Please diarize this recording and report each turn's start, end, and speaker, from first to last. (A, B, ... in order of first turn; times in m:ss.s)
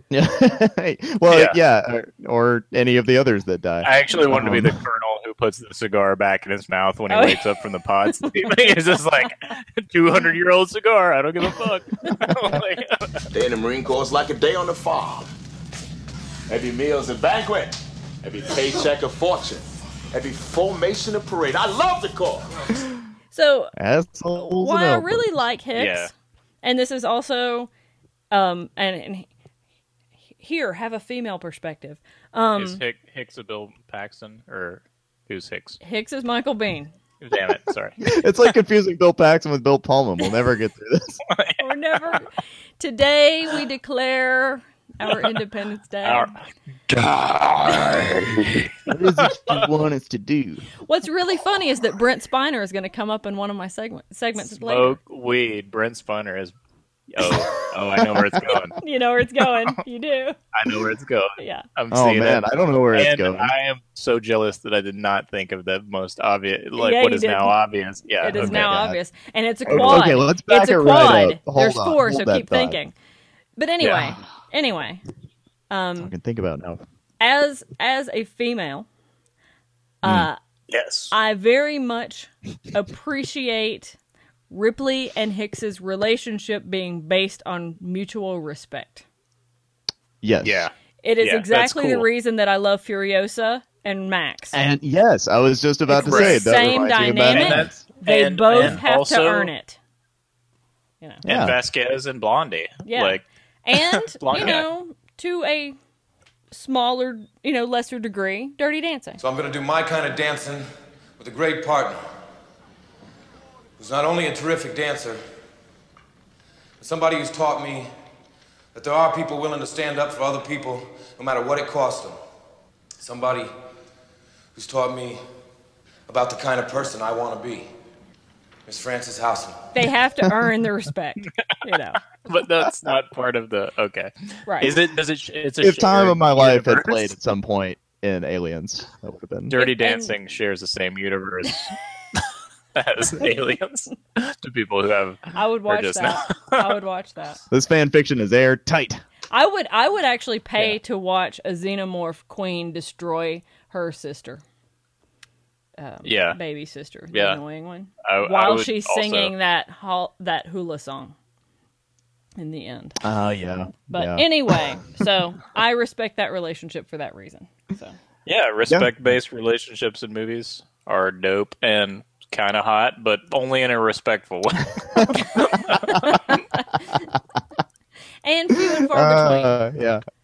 0:00.1-0:04.7 A
0:01.3-0:01.6 B
0:03.8-0:13.3 B
0:07.1-0:07.4 C
0:08.2-0:09.3 C
0:13.3-0:15.3 D
0:16.5-0:22.5 D
0:23.3-0:23.7 C
0:23.8-0:25.4 A
0:24.3-0:26.1 C
0:25.7-0:26.1 B
0:26.6-0:27.7 C
0:28.3-0:29.3 C
0:30.4-0:32.8 C
0:32.5-0:35.8 B
0:35.8-0:36.9 C
0:37.2-0:38.1 B
0:38.0-0:41.2 A
0:41.3-0:42.2 B
0:41.6-0:46.3 C
0:46.0-0:48.3 B
0:47.7-0:48.0 A
0:48.8-0:50.6 A
0:49.2-0:49.6 B
0:50.8-0:55.0 C
0:54.4-0:56.5 B
0:57.1-0:58.8 B
0:58.8-1:00.4 C
1:00.5-1:08.7 B
1:01.4-1:01.6 C
1:01.9-1:03.5 A
1:06.8-1:07.5 C
1:08.2-1:12.9 C
1:08.3-1:09.0 A
1:09.6-1:12.8 A
1:13.6-1:15.0 C
1:13.8-1:14.2 B
1:15.7-1:16.1 C
1:16.0-1:16.8 A
1:17.2-1:18.9 C
1:20.0-1:20.4 C
1:20.0-1:20.3 A
1:20.7-1:21.1 B
1:21.1-1:24.0 C
1:24.5-1:29.0 C
1:30.2-1:30.7 A
1:30.4-1:32.1 B
1:31.0-1:34.6 C
1:34.5-1:37.8 A
1:35.9-1:39.8 C
1:36.0-1:36.4 B
1:37.3-1:39.5 B
1:38.5-1:38.8 A
1:41.2-1:41.6 A
1:41.2-1:44.6 B
1:42.8-1:45.7 C
1:46.5-1:49.2 C
1:49.2-1:50.7 E
1:51.2-1:52.0 E
1:53.8-1:55.2 E
1:56.8-1:57.9 E
1:58.7-2:02.2 E
2:03.0-2:03.5 E
2:04.5-2:05.2 E
2:06.1-2:07.7 E
2:08.6-2:09.6 E
2:09.7-2:12.0 C
2:12.1-2:17.1 B
2:15.6-2:19.5 A
2:19.5-2:26.8 B
2:19.5-2:20.1 C
2:25.3-2:27.4 C
2:27.5-2:29.0 A
2:29.3-2:34.4 C
2:35.8-2:41.1 C
2:36.0-2:36.4 B
2:37.1-2:37.4 B
2:38.0-2:39.3 B
2:42.4-2:43.0 C
2:43.0-2:44.6 A
2:43.9-2:48.0 C
2:48.2-2:56.0 B
2:55.9-2:56.8 C
2:58.2-2:59.6 C
2:58.6-3:00.0 A